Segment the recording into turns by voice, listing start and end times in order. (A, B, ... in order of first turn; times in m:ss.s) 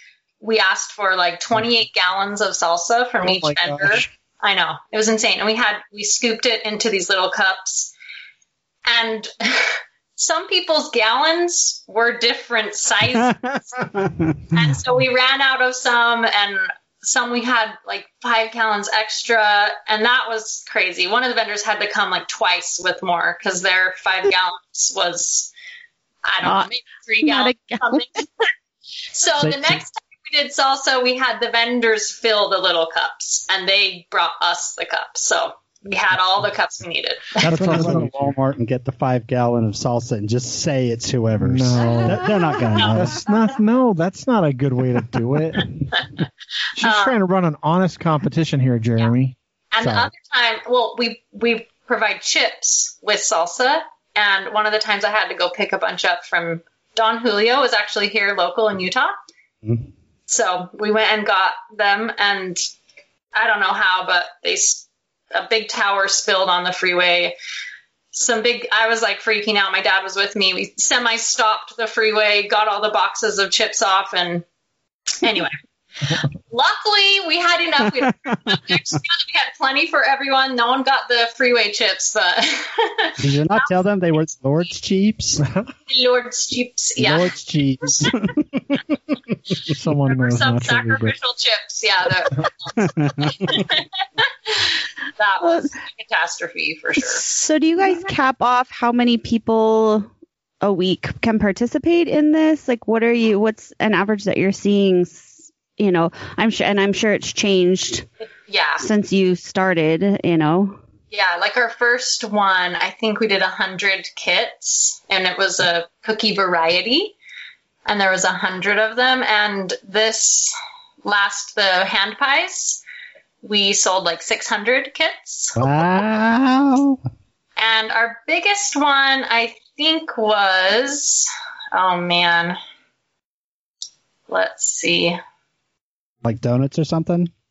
0:00.4-0:07.9 A
0:03.2-0:04.1 B
0:08.8-0:13.6 A
0:13.3-0:14.5 C
0:14.5-0:25.5 A
0:26.2-0:28.2 A
0:26.4-0:26.7 D
0:27.2-0:28.2 D
0:29.1-0:37.9 A
0:29.4-0:29.8 C
0:37.4-0:43.2 C
0:37.4-0:38.3 B
0:41.4-0:45.9 B
0:46.8-0:47.2 A
0:46.8-0:49.3 B
0:49.7-0:59.1 A
0:49.8-0:50.1 C
1:00.3-1:02.6 A
1:03.3-1:07.3 A
1:08.1-1:14.4 A
1:15.2-1:15.6 A
1:16.5-1:23.7 A
1:23.2-1:25.4 C
1:25.9-1:27.3 A
1:27.0-1:28.8 C
1:27.9-1:28.2 A
1:29.7-1:31.1 B
1:30.0-1:37.2 A
1:33.0-1:33.5 C
1:35.4-1:35.7 D
1:37.0-1:40.1 D
1:40.6-1:48.1 D
1:48.5-1:48.8 A
1:48.8-1:50.8 D
1:51.1-1:57.1 A
1:57.8-2:02.8 A
2:03.4-2:05.7 A
2:05.6-2:07.0 C
2:07.6-2:12.6 A
2:14.3-2:15.2 A
2:16.2-2:17.3 C